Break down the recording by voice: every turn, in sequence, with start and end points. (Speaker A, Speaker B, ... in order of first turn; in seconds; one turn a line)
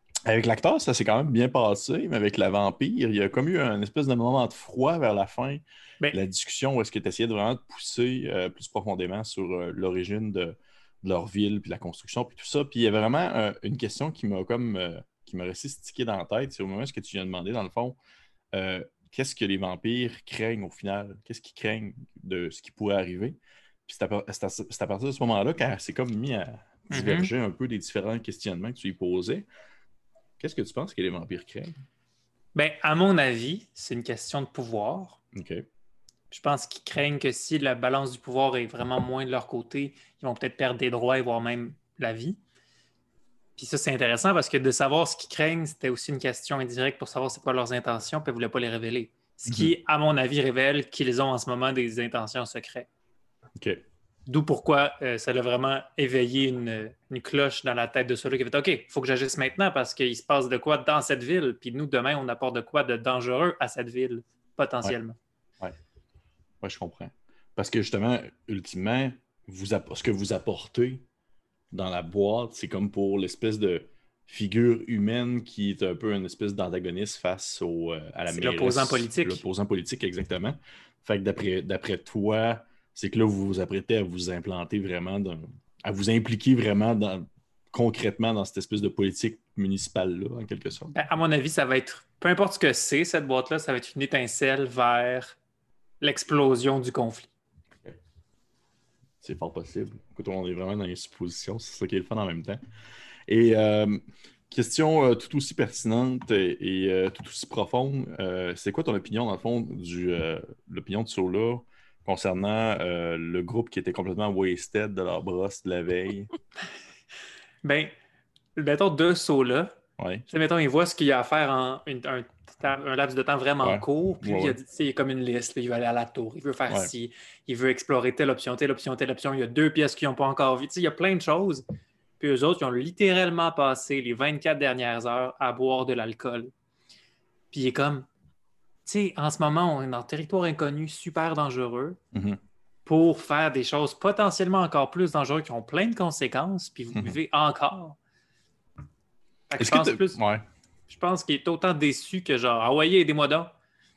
Speaker A: 0.3-18.0
Speaker A: 18.5-29.5
Speaker B: 26.9-27.3
Speaker A: 30.4-31.8
Speaker B: 32.5-35.2
Speaker A: 35.3-35.6
Speaker B: 36.3-42.4
Speaker B: 43.6-52.9
Speaker A: 49.5-49.7
Speaker B: 54.3-65.2
Speaker A: 66.6-71.0
Speaker A: 71.7-90.9
Speaker B: 78.3-79.5
Speaker B: 90.9-95.4
Speaker B: 96.0-97.3
Speaker A: 99.2-102.6
Speaker A: 103.3-116.3
Speaker B: 117.6-117.9
Speaker B: 118.6-119.7
Speaker A: 120.0-120.3
Speaker B: 120.3-131.6
Speaker A: 123.6-124.6
Speaker B: 132.2-136.5
Speaker B: 137.5-138.1
Speaker B: 138.9-142.0
Speaker A: 142.1-142.4
Speaker B: 142.9-148.0
Speaker B: 149.5-150.2
Speaker A: 149.6-150.4
Speaker B: 150.9-153.5